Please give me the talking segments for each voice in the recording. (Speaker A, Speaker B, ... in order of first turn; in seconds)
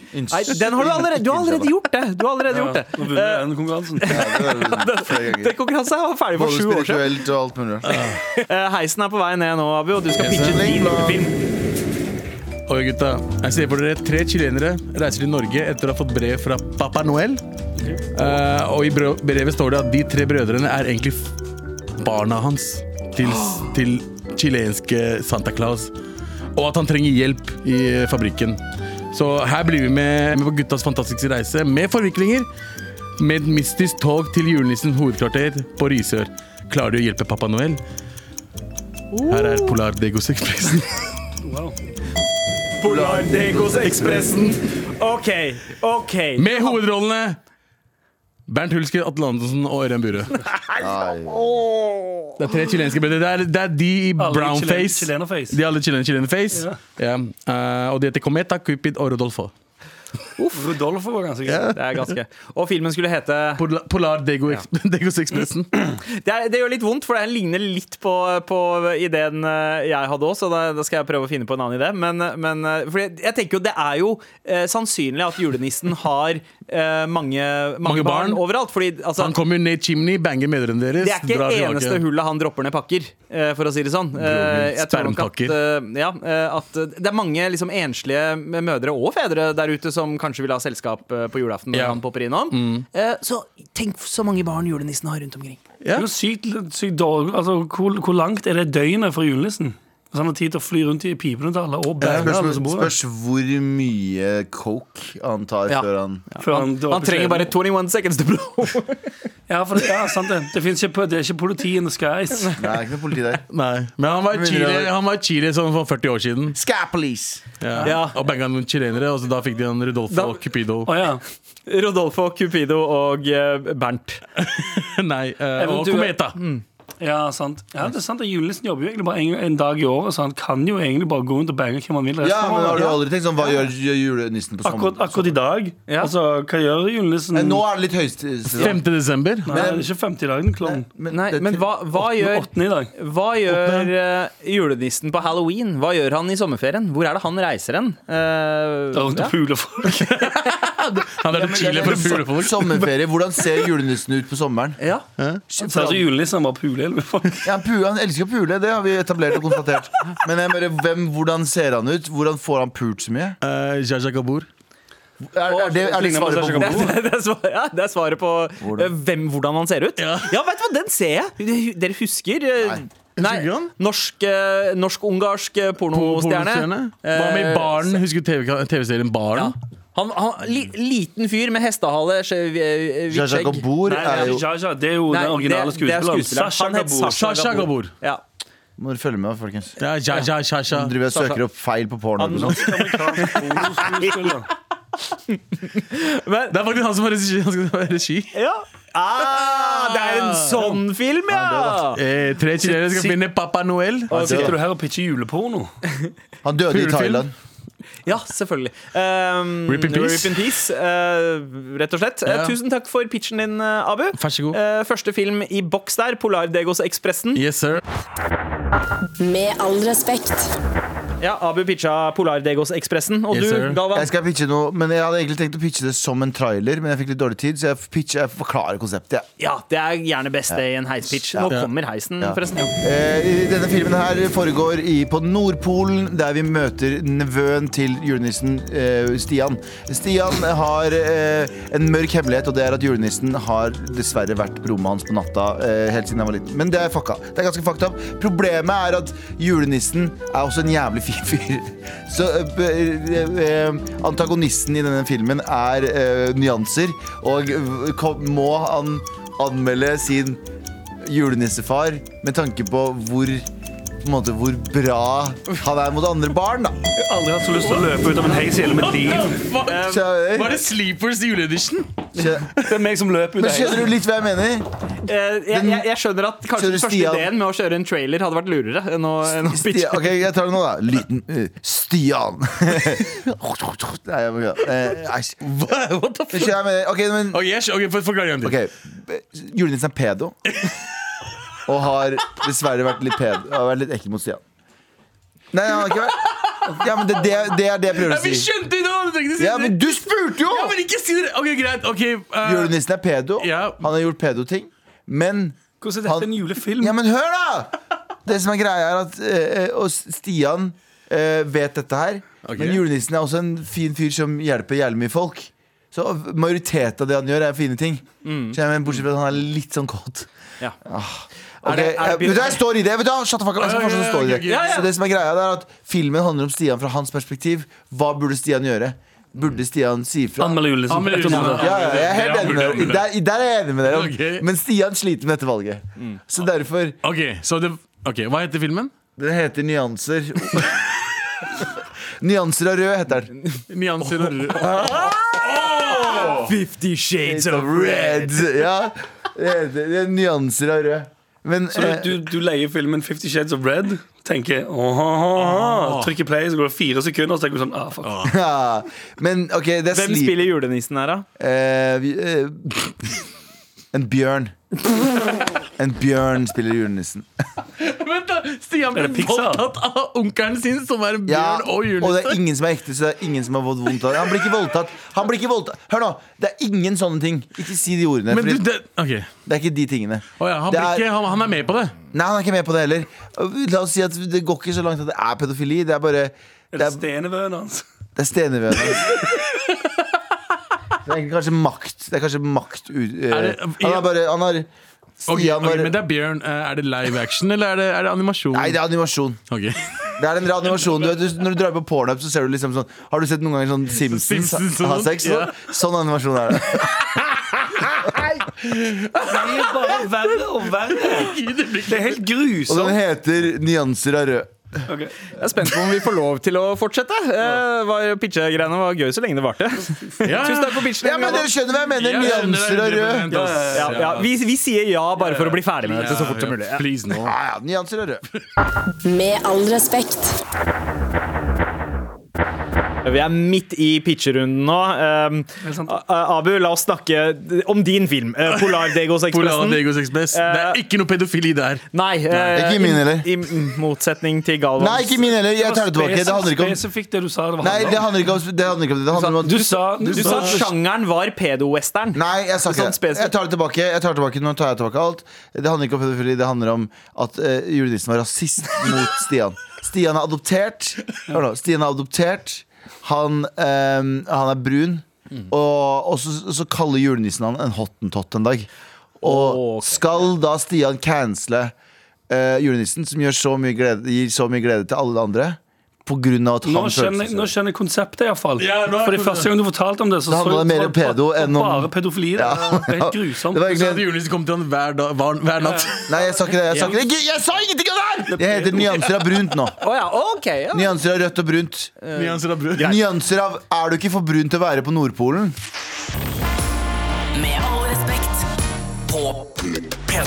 Speaker A: 0.1-1.7, 4.0-5.6, 6.3-8.0, 10.2-11.3, 42.8-44.4, 50.8-51.5, 102.0-106.2, 112.6-113.4, 114.3-114.9, 116.5-117.4, 132.2-135.3, 137.3-138.8, 139.5-139.9, 140.6-141.7, 151.3-154.8, 155.5-156.1, 157.4-163.4, 165.2-166.9, 168.6-168.9, 183.1-184.4, 188.8-189.8, 190.7-192.7, 204.1-204.6, 206.4-207.3, 223.9-229.2, 232.2-260.4, 261.0-263.5, 264.0-266.8, 269.8-270.6, 272.1-272.5, 273.4-274.6, 275.5-275.9, 276.5-277.3, 279.2-285.4, 286.3-287.4, 288.4-290.4, 291.6-294.4, 295.5-298.5, 299.4-300.8, 302.4-320.3, 320.8-337.0, 339.2-340.9, 342.2-343.3, 347.2-352.2, 358.2-360.4, 361.4-363.2, 363.9-364.5, 365.8-367.3, 371.2-378.6, 379.4-381.1, 382.1-387.0, 388.1-389.1, 391.0-394.7, 395.2-396.0, 398.5-399.4, 400.2-407.2, 407.9-408.2, 412.7-414.8, 421.0-423.3, 427.1-428.2, 442.5-443.3, 444.8-446.8, 447.6-449.8, 452.1-468.7, 469.2-471.7, 472.3-477.5, 480.3-484.1, 486.1-489.8, 490.7-492.0, 492.8-495.6
Speaker B: 0.3-7.2, 8.3-11.3, 39.1-39.8, 42.8-46.8, 50.7-52.4, 60.4-60.7, 61.7-63.6, 65.9-79.3, 81.0-95.6, 105.7-109.1, 117.8-118.2, 120.1-120.4, 121.7-124.2, 125.6-126.6, 135.9-136.1, 141.1-149.3, 154.8-155.1, 166.6-178.0, 179.3-184.4, 185.1-188.2, 191.1-191.4, 192.2-194.3, 195.3-196.5, 198.3-202.0, 208.0-217.4, 221.2-224.1, 229.4-232.7, 269.7-270.0, 275.1-280.2, 318.2-318.6, 321.6-322.6, 324.4-324.9, 344.6-345.0, 345.6-348.5, 359.9-361.2, 415.3-421.5, 423.4-426.8, 433.0-440.8, 441.9-445.3, 450.1-453.3, 469.2-470.2, 489.8-490.9, 492.0-493.0
Speaker C: 2.5-4.2, 41.4-41.8, 54.2-55.6, 56.5-56.8, 60.5-61.8, 95.9-102.9, 106.4-107.5, 109.5-112.7, 120.9-121.2, 127.0-132.9, 134.6-137.6, 139.4-140.8, 142.0-142.9, 148.9-150.1, 155.6-157.4, 165.4-167.0, 183.9-187.1, 192.4-194.5, 202.6-203.2, 204.1-205.7, 267.0-269.4, 272.6-273.9, 305.8-306.9, 330.4-332.1, 351.7-358.2, 368.9-369.6, 386.7-387.8, 409.2-413.0, 414.9-415.1, 423.3-424.1, 425.2-425.6, 435.6-435.9, 445.6-448.1, 449.2-450.7, 476.6-483.6, 485.6-485.9, 488.3-489.0
Speaker D: 7.8-8.2, 10.2-10.6, 12.7-17.4, 18.1-21.3, 22.0-25.9, 26.5-32.5, 33.2-37.8, 39.3-41.0, 43.3-44.5, 46.4-47.4, 48.5-50.5, 52.4-59.5, 61.5-62.1, 63.6-65.7, 77.8-78.4, 79.2-82.0, 84.1-85.6, 91.7-92.0, 92.5-92.8, 95.8-96.1, 102.0-102.3, 113.5-116.6, 117.6-120.9, 124.4-126.4, 138.5-139.7, 143.4-143.9, 149.8-152.9, 163.4-164.5, 170.0-170.3, 173.2-173.7, 175.9-179.5, 187.1-187.9, 189.8-190.9, 196.5-198.3, 199.2-200.8, 201.5-204.5, 206.7-207.3, 209.7-210.4, 212.2-212.6, 214.1-214.6, 217.3-217.8, 223.3-223.8, 231.4-231.7, 267.6-272.0, 285.4-286.6, 287.3-288.6, 295.9-296.3, 297.9-302.7, 303.4-303.9, 312.4-312.8, 323.6-324.9, 330.9-333.1, 333.9-334.4, 337.0-338.9, 343.7-346.5, 355.4-356.1, 358.0-358.4, 367.8-372.4, 378.3-379.3, 380.4-381.9, 393.3-394.1, 395.3-398.8, 399.5-399.8, 404.0-405.6, 408.4-409.9, 410.9-412.2, 420.2-424.3, 425.8-427.4, 439.3-442.6, 450.0-450.7, 478.6-479.5, 483.6-486.0, 492.1-492.9
Speaker E: 219.2-220.5, 429.0-430.4